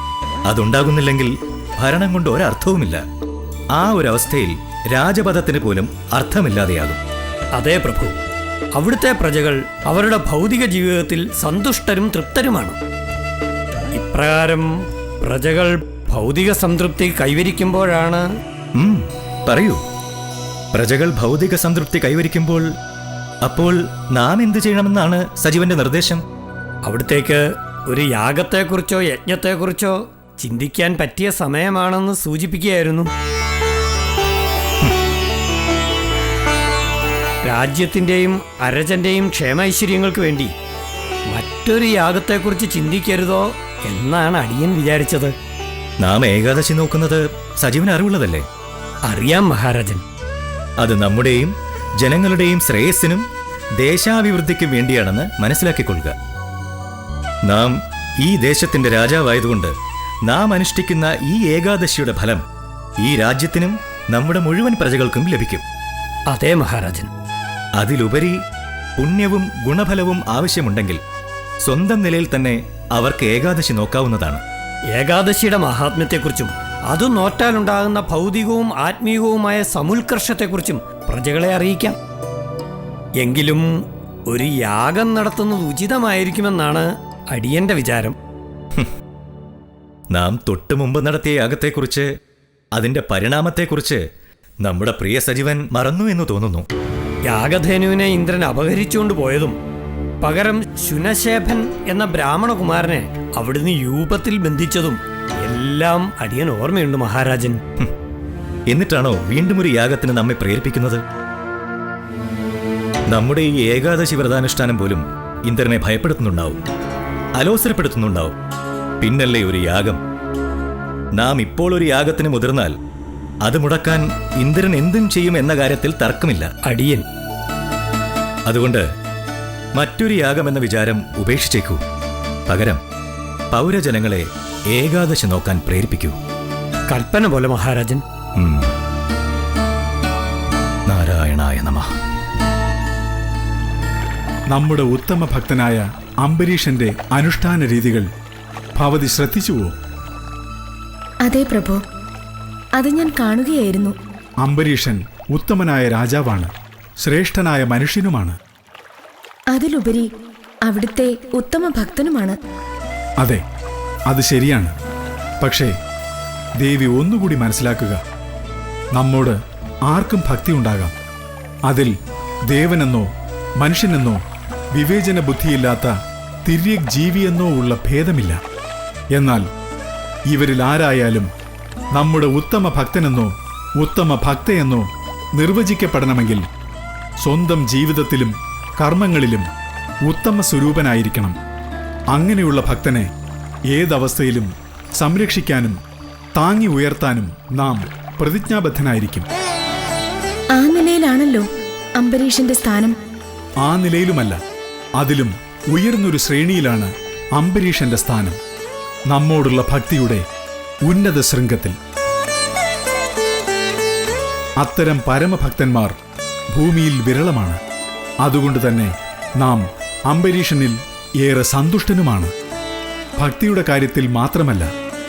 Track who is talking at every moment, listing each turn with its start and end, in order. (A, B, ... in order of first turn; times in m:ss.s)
0:00.5-0:03.0 A
0:03.8-0:07.0 A
0:07.5-0:08.2 B
0:08.8-0:12.8 B
0:13.9-0:18.3 B
0:18.8-0:19.8 A
0:20.7-0:22.7 A
0:23.4-0:26.2 A
0:26.8-0:33.1 B
0:37.4-0:40.5 B
0:41.3-0:45.4 B
0:46.0-0:48.4 A
0:49.0-0:50.0 B
0:50.8-0:53.2 A
0:53.8-0:56.1 A
0:57.5-0:59.7 A
1:00.3-1:02.4 A
1:03.0-1:05.6 A
1:06.3-1:07.1 B
1:07.8-1:08.3 A
1:09.0-1:11.0 A
1:11.6-1:14.4 A
1:14.9-1:22.0 B
1:23.2-1:23.7 B
1:24.3-1:28.2 B
1:30.1-1:32.1 A
1:32.8-1:34.0 A
1:34.6-1:36.7 A
1:37.3-1:39.6 B
1:40.2-1:47.6 B
1:48.7-1:51.0 A
1:53.1-1:56.6 A
1:57.4-1:58.3 A
1:59.0-2:00.0 A
2:01.2-2:02.7 A
2:03.4-2:06.5 A
2:06.6-2:07.0 B
2:08.5-2:08.8 A
2:09.8-2:11.8 A
2:12.5-2:12.8 A
2:13.5-2:16.2 A
2:16.9-2:18.0 B
2:18.4-2:18.7 A
2:20.9-2:21.9 A
2:24.5-2:28.1 C
2:28.8-2:29.8 C
2:31.2-2:31.8 D
2:32.8-2:34.0 D
2:34.4-2:38.4 C
2:39.5-2:40.1 D
2:40.7-2:42.4 D
2:44.1-2:44.7 C
2:45.4-2:45.7 C
2:46.6-2:48.0 C
2:49.0-2:49.4 C
2:49.9-2:50.9 C
2:51.7-2:51.9 C
2:52.5-2:54.2 C
2:54.7-2:55.9 C
2:56.4-2:58.4 C
2:59.1-2:59.5 C
3:00.3-3:01.3 C
3:01.9-3:06.4 C
3:07.2-3:09.5 C
3:10.1-3:11.4 C
3:12.1-3:13.1 C
3:13.7-3:15.8 C
3:16.4-3:19.3 C
3:20.5-3:21.5 D
3:22.0-3:23.0 D
3:23.6-3:24.4 C
3:25.0-3:28.4 C
3:29.1-3:30.2 C
3:30.8-3:31.8 C
3:34.6-3:36.0 C
3:36.5-3:37.6 C
3:38.2-3:42.3 C
3:43.2-3:44.7 C